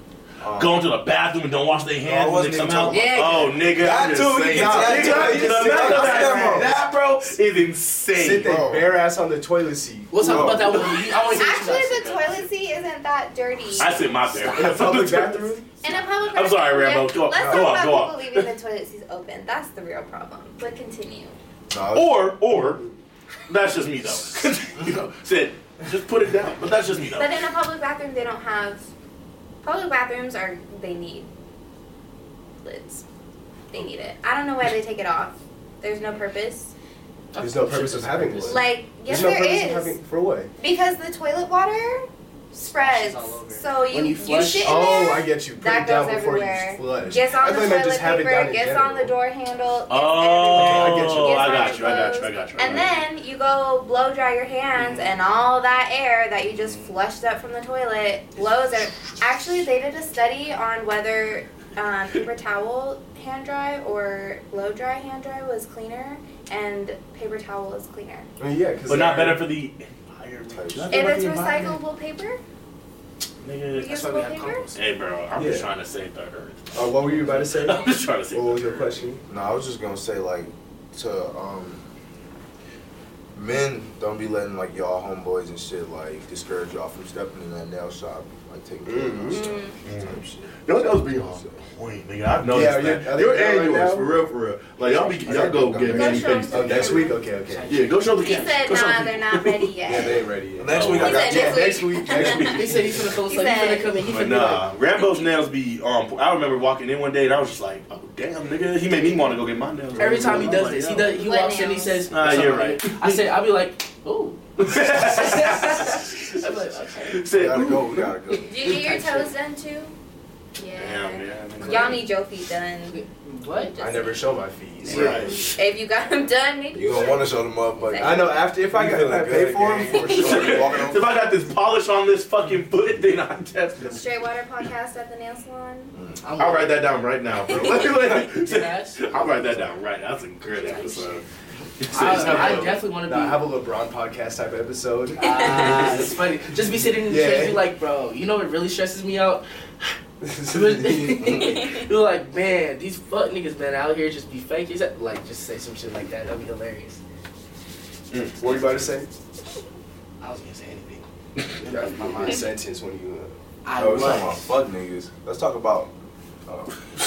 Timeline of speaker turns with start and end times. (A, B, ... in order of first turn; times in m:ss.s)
0:00.4-0:00.8 A
0:00.6-0:08.6 B
0:02.0-0:06.8 A
0:02.9-0:03.8 C
0:04.3-0:06.8 D
0:08.1-0:10.8 D
0:08.3-0:08.9 A
0:10.1-0:12.4 C
0:10.2-0:10.9 A
0:10.8-0:12.4 B
0:10.9-0:14.0 E
0:13.8-0:15.6 B
0:14.3-0:15.6 D
0:14.4-0:14.8 C
0:15.8-0:21.4 E
0:16.2-0:18.5 B
0:17.4-0:17.8 A
0:21.7-0:22.2 A
0:21.9-0:22.8 B
0:23.5-0:27.3 B
0:27.2-0:28.9 E
0:29.6-0:31.3 E
0:32.6-0:33.0 E
0:33.7-0:36.7 E
0:37.3-0:38.6 C
0:37.4-0:40.5 D
0:38.4-0:40.0 E
0:40.6-1:08.3 E
0:42.8-0:45.0 C
0:44.5-0:49.1 D
0:49.9-0:53.0 B
0:50.5-0:52.2 D
0:54.8-0:55.2 C
0:56.5-0:56.9 C
1:08.4-1:09.4 D
1:08.9-1:11.8 B
1:10.5-1:11.1 A
1:10.9-1:12.4 E
1:13.4-1:14.0 B
1:13.7-1:14.7 E
1:13.8-1:14.8 C
1:14.8-1:19.0 B
1:15.4-1:15.7 D
1:16.7-1:19.2 D
1:19.3-1:21.9 A
1:23.3-1:31.6 A
1:28.8-1:29.6 D
1:29.3-1:29.8 E
1:29.8-1:37.1 B
1:32.5-1:34.2 D
1:34.8-1:36.5 A
1:35.8-1:37.2 E
1:36.5-1:37.7 D
1:37.5-1:38.2 C
1:37.7-1:40.0 B
1:38.2-1:40.2 E
1:39.8-1:43.0 D
1:40.6-1:41.8 A
1:40.7-1:43.0 B
1:41.0-1:42.6 E
1:42.4-1:44.7 C
1:43.2-1:43.9 E
1:44.0-1:51.3 B
1:45.0-1:45.4 E
1:48.8-1:49.4 E
1:50.0-1:50.6 A
1:50.0-1:57.3 C
1:51.2-1:52.1 E
1:52.1-1:53.2 B
1:54.6-1:58.4 B
1:57.3-1:58.5 A
1:58.5-1:59.9 E
1:58.6-1:59.3 C
2:00.6-2:04.2 E
2:00.8-2:02.0 B
2:01.6-2:02.1 C
2:02.9-2:03.8 C
2:03.8-2:05.4 D
2:04.8-2:05.4 B
2:04.9-2:05.3 A
2:05.0-2:08.3 E
2:06.7-2:11.1 A
2:08.0-2:10.5 D
2:09.9-2:14.2 B
2:10.0-2:10.4 E
2:13.9-2:16.0 E
2:15.9-2:16.2 A
2:16.2-2:16.8 C
2:16.4-2:21.2 B
2:17.7-2:19.6 C
2:20.6-2:21.2 E
2:21.8-2:22.8 B
2:21.9-2:23.4 C
2:22.0-2:26.1 D
2:25.2-2:29.5 C
2:25.2-2:25.8 E
2:27.1-2:27.6 D
2:30.2-2:31.8 D
2:30.5-2:37.0 C
2:38.1-2:38.7 B
2:38.4-2:39.1 D
2:40.2-2:42.5 C
2:41.7-2:43.3 D
2:43.6-2:44.5 C
2:43.8-2:45.9 A
2:46.5-2:46.8 A